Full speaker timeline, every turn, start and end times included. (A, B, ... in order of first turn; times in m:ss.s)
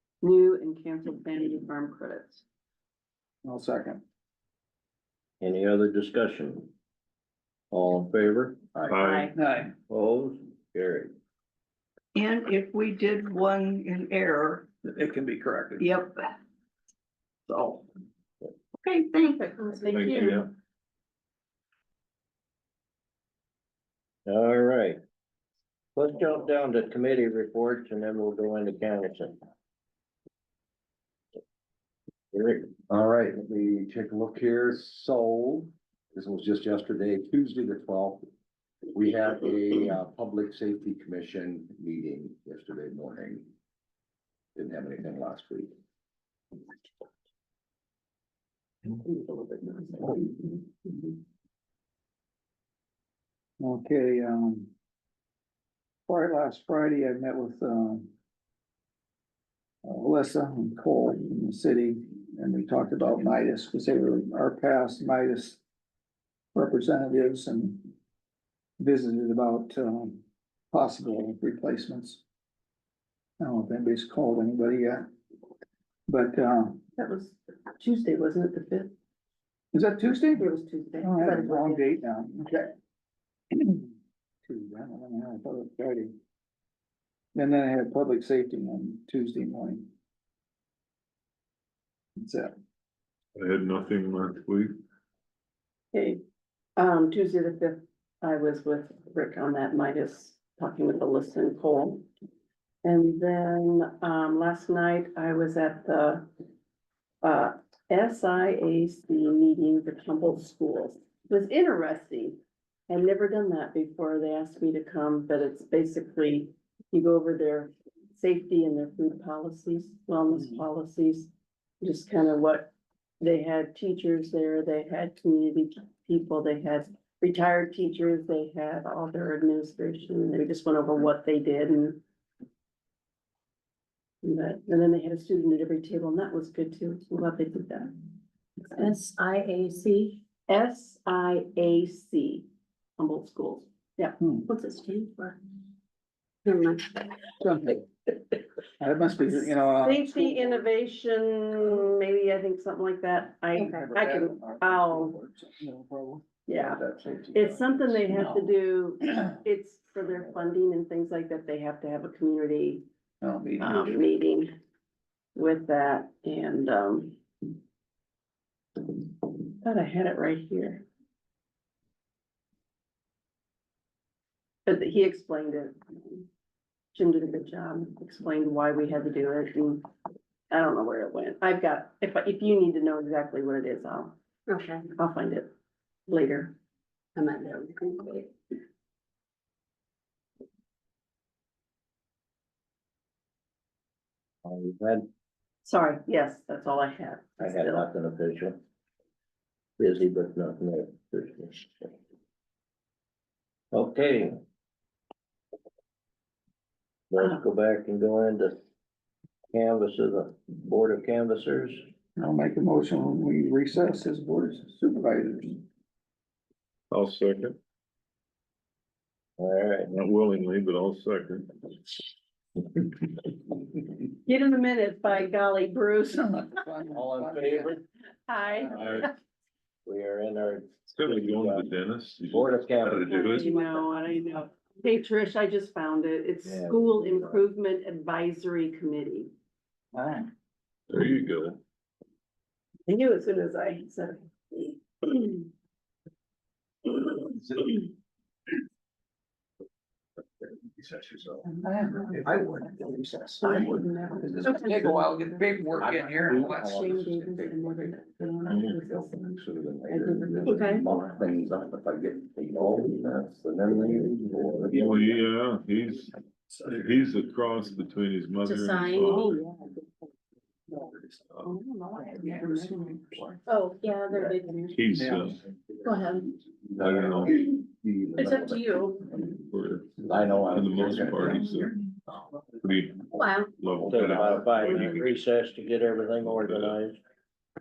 0:00.2-0:02.4 A
0:03.4-0:04.0 B
0:05.4-0:06.7 C
0:07.7-0:08.6 C
0:08.8-0:09.8 B
0:08.8-0:09.3 D
0:09.0-0:09.3 A
0:09.9-0:11.1 C
0:12.2-0:14.6 E
0:14.8-0:15.9 B
0:15.8-0:16.4 E
0:17.5-0:17.8 E
0:18.8-0:20.2 E
0:19.8-0:20.4 F
0:19.8-0:20.5 D
0:24.3-0:25.0 C
0:26.0-0:29.4 C
0:32.3-0:32.8 C
0:32.8-0:38.3 G
0:38.9-0:43.5 G
0:44.6-0:45.7 G
0:49.0-0:51.2 A
0:53.6-0:54.7 B
0:56.1-0:58.1 B
0:59.8-1:05.6 B
1:06.5-1:07.9 B
1:08.8-1:12.2 B
1:13.4-1:15.1 B
1:16.1-1:16.8 B
1:17.0-1:18.9 A
1:19.7-1:22.7 B
1:20.4-1:21.9 A
1:23.5-1:23.9 B
1:24.5-1:26.1 B
1:27.4-1:29.9 B
1:32.2-1:32.5 B
1:33.4-1:34.8 D
1:35.9-1:36.2 A
1:36.8-1:42.0 A
1:42.8-1:46.3 A
1:47.2-1:52.4 A
1:52.9-2:01.3 A
2:00.4-2:00.6 B
2:01.8-2:12.0 A
2:14.2-2:18.0 A
2:18.7-2:20.2 F
2:20.5-2:22.5 A
2:23.0-2:24.2 A
2:24.2-2:24.5 B
2:24.5-2:25.4 F
2:26.5-2:27.1 F
2:27.4-2:27.9 B
2:28.8-2:30.6 B
2:29.3-2:35.2 A
2:33.6-2:38.6 B
2:36.5-2:36.8 A
2:37.3-2:42.8 A
2:43.2-2:44.0 B
2:43.6-2:44.5 A
2:45.4-2:47.2 A
2:49.6-2:50.8 A
2:54.7-2:56.3 A
2:56.9-2:59.9 A
3:00.5-3:04.2 A
3:04.5-3:04.9 F
3:04.9-3:05.5 A
3:06.1-3:06.6 A
3:07.2-3:08.3 F
3:14.4-3:15.1 C
3:15.6-3:17.9 A
3:17.4-3:18.6 C
3:19.8-3:21.9 C
3:23.7-3:24.4 C
3:27.1-3:28.6 C
3:29.5-3:31.8 C
3:32.2-3:35.6 B
3:36.9-3:37.6 D
3:39.4-3:39.9 C
3:39.9-3:41.7 D
3:44.2-3:46.6 A
3:46.2-3:47.8 B
3:46.9-3:47.8 C
3:48.3-3:48.8 A
3:48.5-3:49.0 B
3:48.7-3:49.1 C
3:48.8-3:49.0 D
3:49.8-3:51.7 C
3:50.9-3:53.5 D
3:52.3-3:53.2 C
3:53.1-3:59.3 A
3:53.3-3:53.9 F
3:56.4-3:57.4 C
3:59.9-4:00.3 B
4:00.9-4:01.6 D
4:02.9-4:05.5 A
4:10.8-4:11.4 G
4:11.4-4:16.7 B
4:12.2-4:13.8 G
4:13.4-4:15.8 A
4:14.4-4:15.0 G
4:15.8-4:24.9 G
4:16.3-4:20.9 A
4:18.5-4:18.8 D
4:20.4-4:20.9 F
4:24.6-4:26.1 D
4:26.6-4:29.4 D
4:28.4-4:29.4 F
4:29.0-4:29.8 A
4:31.4-4:33.4 A
4:32.1-4:33.2 B
4:33.5-4:34.9 F
4:34.7-4:35.4 D
4:34.9-4:35.4 B
4:35.8-4:36.4 F
4:36.6-4:39.4 G
4:36.8-4:37.4 D
4:38.2-4:39.1 F
4:39.5-4:41.7 D
4:40.0-4:41.5 G
4:41.2-4:41.7 B
4:42.6-4:45.1 D
4:43.1-4:43.5 F
4:43.8-4:47.0 C
4:44.7-4:45.0 F
4:46.2-4:46.8 D